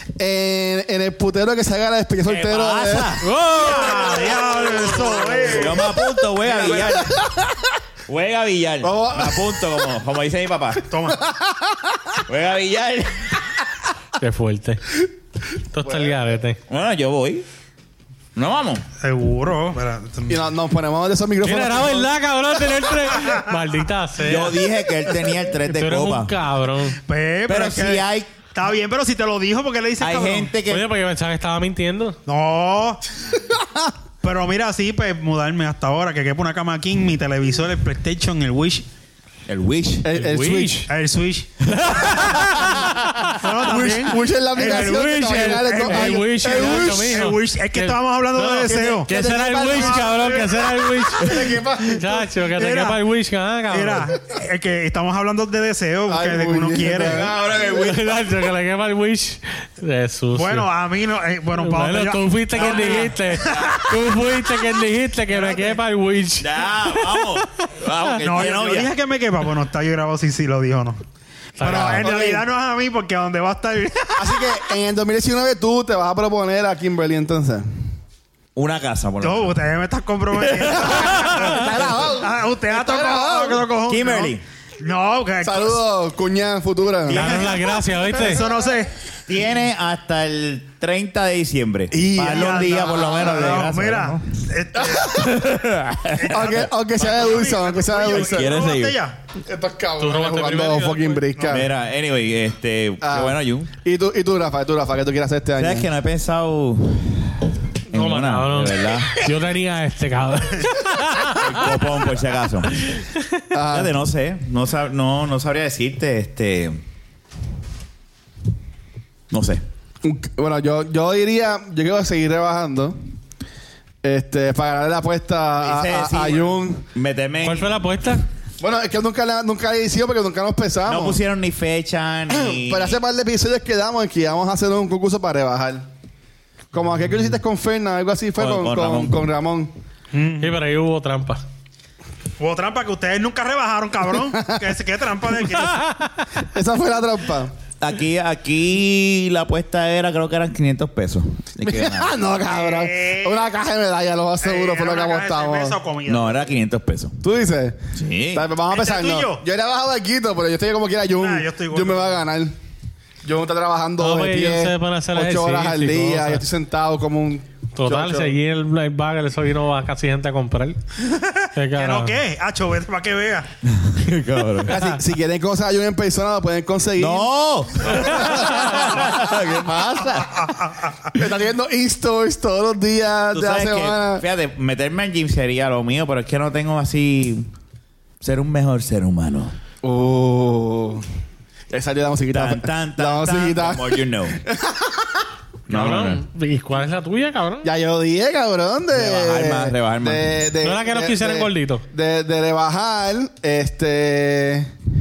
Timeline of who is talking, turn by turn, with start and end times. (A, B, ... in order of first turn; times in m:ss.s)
0:00.2-0:07.7 A
0:02.3-0:03.3 B
0:03.2-0:04.4 C
0:03.5-0:05.9 D
0:05.4-0:07.3 B
0:08.1-0:10.8 B
0:08.8-0:09.9 A
0:10.9-0:11.2 D
0:11.1-0:12.2 A
0:12.3-0:13.4 B
0:14.2-0:15.0 C
0:15.7-0:16.6 C
0:15.8-0:16.2 A
0:16.7-0:17.4 B
0:18.4-0:18.8 B
0:19.0-0:20.4 D
0:20.3-0:22.1 A
0:21.4-0:24.6 C
0:24.2-0:26.3 B
0:25.6-0:27.0 C
0:27.1-0:30.5 D
0:27.5-0:28.3 B
0:30.0-0:30.8 B
0:30.7-0:32.2 C
0:32.3-0:33.0 D
0:34.2-0:38.8 D
0:39.5-0:40.1 B
0:40.0-0:40.9 A
0:40.2-0:40.8 C
0:40.9-0:42.1 D
0:41.8-0:43.2 B
0:41.9-0:42.9 C
0:43.3-0:49.1 D
0:43.6-0:47.3 A
0:44.6-0:54.1 C
0:48.7-0:52.2 A
0:49.7-0:50.6 D
0:52.0-0:53.0 D
0:53.7-0:57.3 D
0:56.1-0:58.0 A
0:57.1-0:58.0 B
0:57.5-1:00.7 C
1:00.3-1:03.9 D
1:01.6-1:07.4 C
1:03.5-1:03.8 B
1:05.3-1:05.7 B
1:06.4-1:08.9 B
1:08.2-1:11.0 D
1:11.6-1:12.1 C
1:11.6-1:14.6 D
1:11.6-1:12.5 A
1:14.2-1:17.7 A
1:18.6-1:19.6 B
1:19.2-1:25.8 D
1:20.6-1:21.4 B
1:20.8-1:23.7 A
1:23.9-1:24.4 B
1:25.4-1:27.3 A
1:27.1-1:28.9 D
1:27.1-1:28.4 C
1:27.1-1:27.5 B
1:29.3-1:34.2 B
1:31.9-1:33.6 A
1:32.2-1:35.2 D
1:34.8-1:35.4 A
1:35.1-1:36.6 B
1:36.1-1:39.2 D
1:36.3-1:38.6 A
1:38.1-1:39.0 B
1:39.5-1:41.7 A
1:40.0-1:41.5 C
1:41.4-1:41.6 D
1:41.5-1:43.7 B
1:43.0-1:45.9 A
1:45.6-1:49.2 B
1:47.9-1:51.7 C
1:51.3-1:52.8 B
1:53.5-1:53.9 A
1:53.7-1:56.8 B
1:59.3-1:59.6 B
2:00.0-2:03.0 A
2:04.0-2:06.8 A
2:05.6-2:07.8 B
2:07.4-2:08.2 C
2:08.6-2:11.2 A
2:10.9-2:13.0 B
2:12.3-2:15.8 A
2:16.7-2:19.7 A
2:18.4-2:19.2 B
2:20.1-2:20.6 D
2:20.4-2:21.4 C
2:22.4-2:25.8 D
2:25.6-2:26.1 C
2:26.5-2:27.5 A
2:27.8-2:32.2 B
2:31.6-2:35.8 A
2:32.5-2:33.4 D
2:34.4-2:36.5 D
2:36.1-2:37.2 B
2:37.2-2:37.8 A
2:38.0-2:38.5 B
2:38.3-2:42.6 A
2:38.7-2:39.4 D
2:41.2-2:42.2 D
2:43.2-2:48.4 A
2:44.0-2:46.4 C
2:47.8-2:50.8 C
2:51.0-2:53.5 D
2:51.6-2:52.2 C
2:53.7-2:54.9 B
2:54.6-3:00.3 A
2:57.0-3:00.3 B
3:00.3-3:00.9 D
3:01.1-3:04.2 A
3:03.3-3:07.5 B
3:08.2-3:09.5 B
3:09.8-3:11.0 A
3:11.7-3:15.2 A
3:12.3-3:14.4 B
3:15.7-3:16.2 B
3:15.7-3:17.7 C
3:17.6-3:24.7 A
3:18.9-3:20.4 B
3:20.6-3:21.8 C